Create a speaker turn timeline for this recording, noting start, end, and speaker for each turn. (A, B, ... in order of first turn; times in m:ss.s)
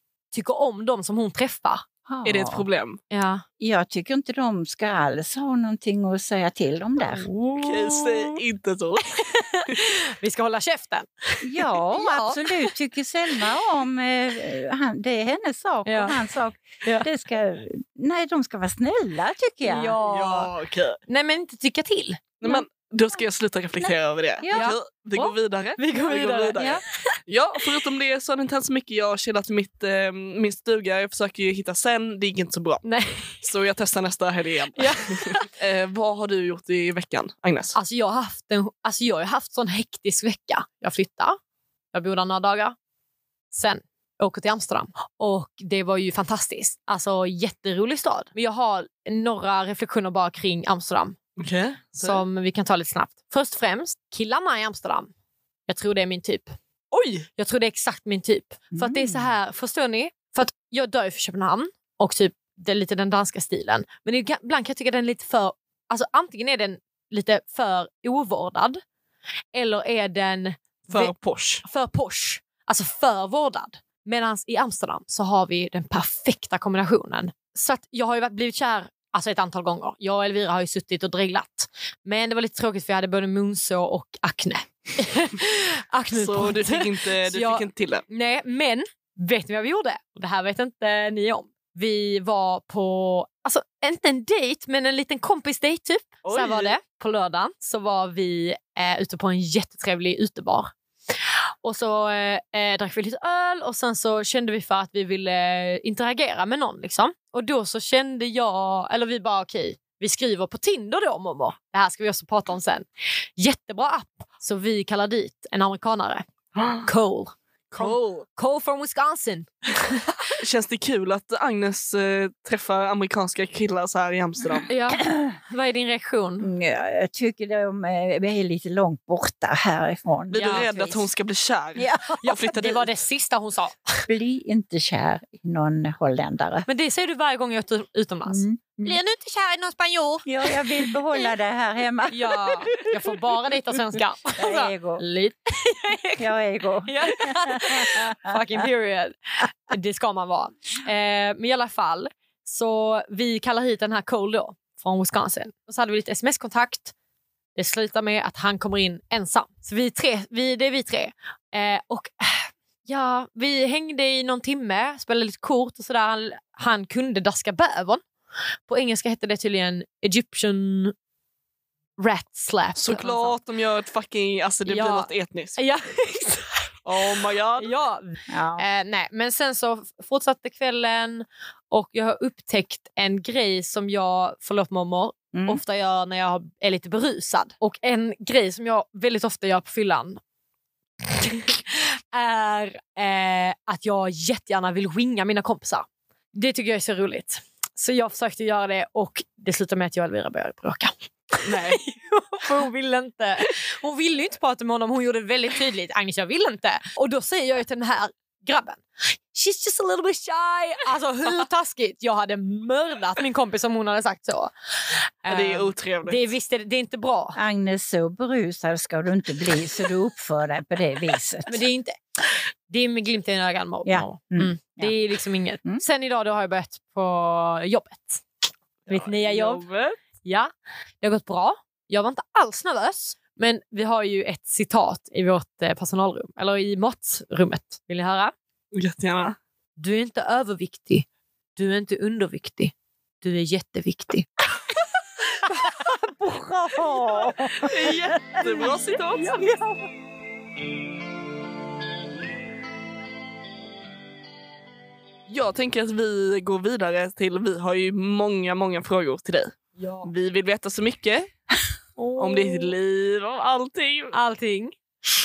0:00.3-0:01.8 A
0:02.1-0:02.6 B
0:02.2-0:03.0 C
0:03.1-0:03.4 A
0:03.6-0:07.3 B
0:07.0-0:08.4 A
0:07.6-0:09.1 C
0:09.1-0:12.7 A
0:11.4-0:20.0 B
0:15.8-0:16.2 A
0:19.6-0:20.5 A
0:20.0-0:21.0 C
0:21.1-0:22.6 A
0:22.4-0:32.8 C
0:24.4-0:25.3 B
0:25.8-0:26.6 A
0:32.8-0:33.4 A
0:33.4-0:37.8 C
0:34.8-0:35.4 A
0:37.8-0:41.4 A
0:41.9-0:42.8 A
0:43.5-0:51.2 A
0:51.4-0:52.2 C
0:52.0-0:55.1 A
0:55.7-0:56.6 A
0:56.9-0:57.3 C
0:57.4-1:08.8 A
0:58.7-0:59.3 B
1:09.5-1:11.1 A
1:10.9-1:11.6 C
1:11.6-1:40.7 A
1:26.1-1:28.1 C
1:36.2-1:36.8 C
1:41.6-1:56.2 A
1:56.6-1:56.9 C
1:56.8-1:59.5 A
1:57.7-1:58.2 C
2:00.4-2:04.7 C
2:04.7-2:06.5 A
2:04.9-2:05.4 B
2:06.4-2:11.1 B
2:10.3-2:12.9 C
2:10.3-2:10.6 A
2:11.8-2:12.5 B
2:12.2-2:14.1 A
2:14.1-2:16.7 B
2:16.6-2:20.9 A
2:18.3-2:19.0 B
2:20.2-2:22.9 B
2:22.1-2:26.2 A
2:24.4-2:25.0 B
2:26.2-2:28.3 B
2:26.9-2:29.1 A
2:29.7-2:36.9 A
2:37.6-2:48.0 A
2:48.7-2:50.9 A
2:52.0-2:53.4 A
2:52.8-2:55.6 C
2:54.7-2:56.7 A
2:56.8-2:57.7 C
2:57.6-3:10.2 A
2:58.3-2:58.6 B
3:05.3-3:05.6 B
3:11.2-3:37.4 A
3:21.4-3:21.8 C
3:35.3-3:36.2 C
3:37.3-3:41.6 B
3:41.5-3:42.0 A
3:42.7-3:48.2 A
3:43.8-3:44.9 B
3:48.8-3:50.0 C
3:48.9-3:49.6 A
3:50.2-3:58.3 A
3:58.7-3:59.4 C
3:59.8-4:04.3 A
4:05.5-4:09.8 B
4:07.6-4:09.5 C
4:15.3-4:21.3 C
4:19.8-4:20.1 A
4:22.0-4:22.7 A
4:22.2-4:24.1 C
4:24.1-4:24.7 A